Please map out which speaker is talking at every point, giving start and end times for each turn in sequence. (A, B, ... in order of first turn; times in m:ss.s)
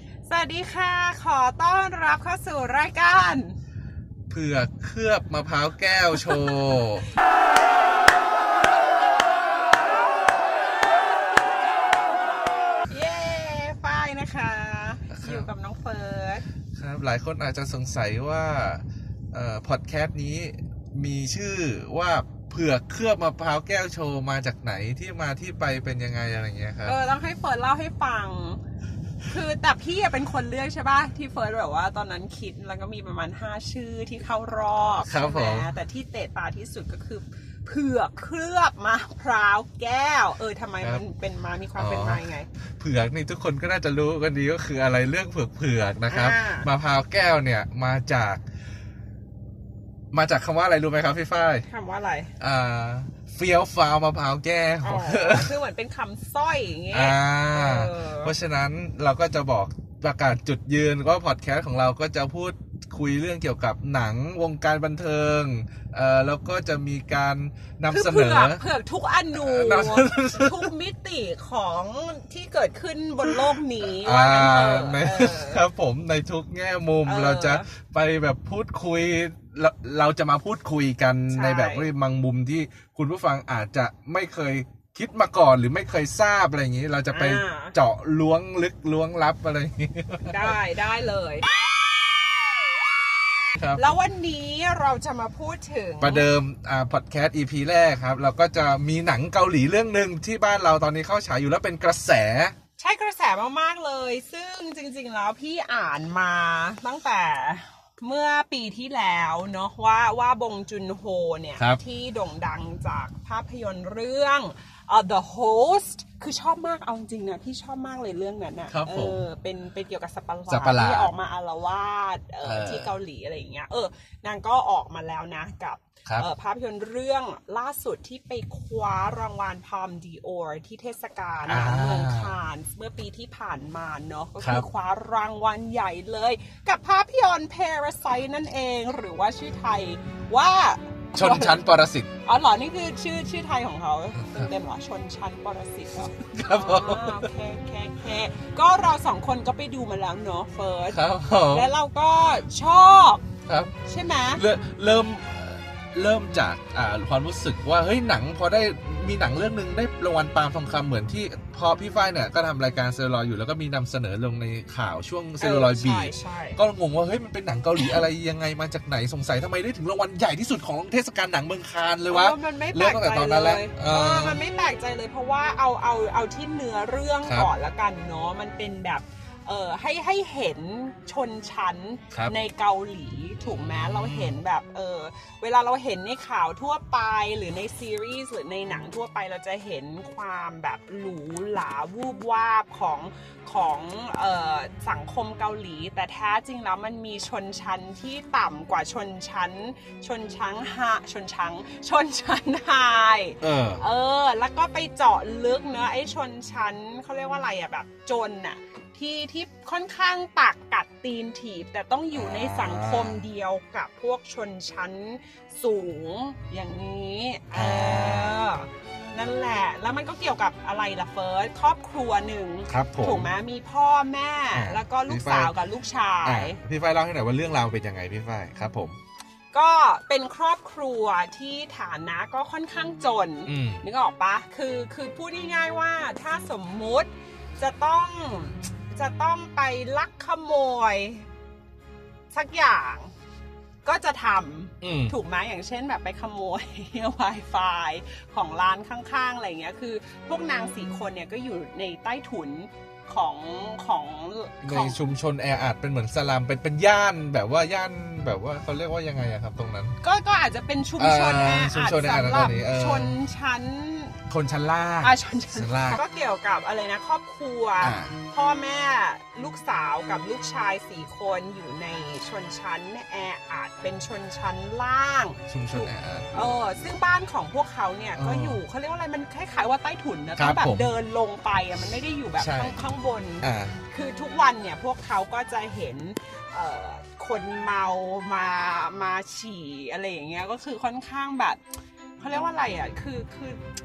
0:00.3-0:03.6 A
0:04.3-0:07.1 B
0:12.9-0:16.4 A
0:15.1-0:15.5 B
0:16.8-0:27.0 B
0:26.8-0:28.6 A
0:29.3-0:42.5 A
0:35.0-0:35.7 B
0:41.8-0:42.2 B
0:42.8-0:48.4 B
0:46.1-0:46.7 A
0:50.1-0:51.6 B
0:51.7-0:52.3 A
0:52.4-0:55.5 B
0:54.8-0:58.3 A
0:56.9-1:08.6 B
1:07.9-1:15.6 A
1:09.3-1:10.7 B
1:14.0-1:30.6 B
1:17.0-1:17.7 A
1:21.3-1:21.9 A
1:27.1-1:27.8 A
1:30.2-1:31.5 A
1:33.5-1:33.9 B
1:33.8-1:36.3 A
1:36.0-1:42.5 B
1:42.8-2:21.6 A
1:58.7-1:59.2 B
2:00.5-2:01.1 B
2:02.4-2:02.9 B
2:11.5-2:12.3 B
2:14.4-2:14.6 B
2:21.1-2:22.1 B
2:22.2-2:33.3 A
2:24.2-2:24.5 B
2:26.3-2:27.3 B
2:30.9-2:31.7 B
2:33.5-2:33.7 B
2:33.8-2:34.4 A
2:34.3-2:54.4 B
2:45.4-2:46.6 A
2:52.1-3:46.6 A
2:57.2-2:57.5 B
3:03.4-3:04.4 B
3:23.4-3:23.8 B
3:32.1-3:33.2 B
3:37.5-3:38.4 B
3:42.7-3:43.3 B
3:44.5-3:45.5 B
3:46.2-3:49.0 B
3:49.5-4:01.3 A
3:53.5-3:53.8 B
4:02.3-4:03.1 A
4:03.8-4:15.0 A
4:04.8-4:05.2 B
4:14.6-4:20.0 B
4:20.0-4:24.2 A
4:21.0-4:23.2 B
4:24.3-4:26.0 B
4:25.0-4:51.6 A
4:27.8-4:28.2 B
4:35.5-4:36.9 B
4:38.2-4:38.6 B
4:40.4-4:40.9 B
4:42.4-4:42.8 B
4:43.4-4:43.8 B
4:52.2-4:53.6 A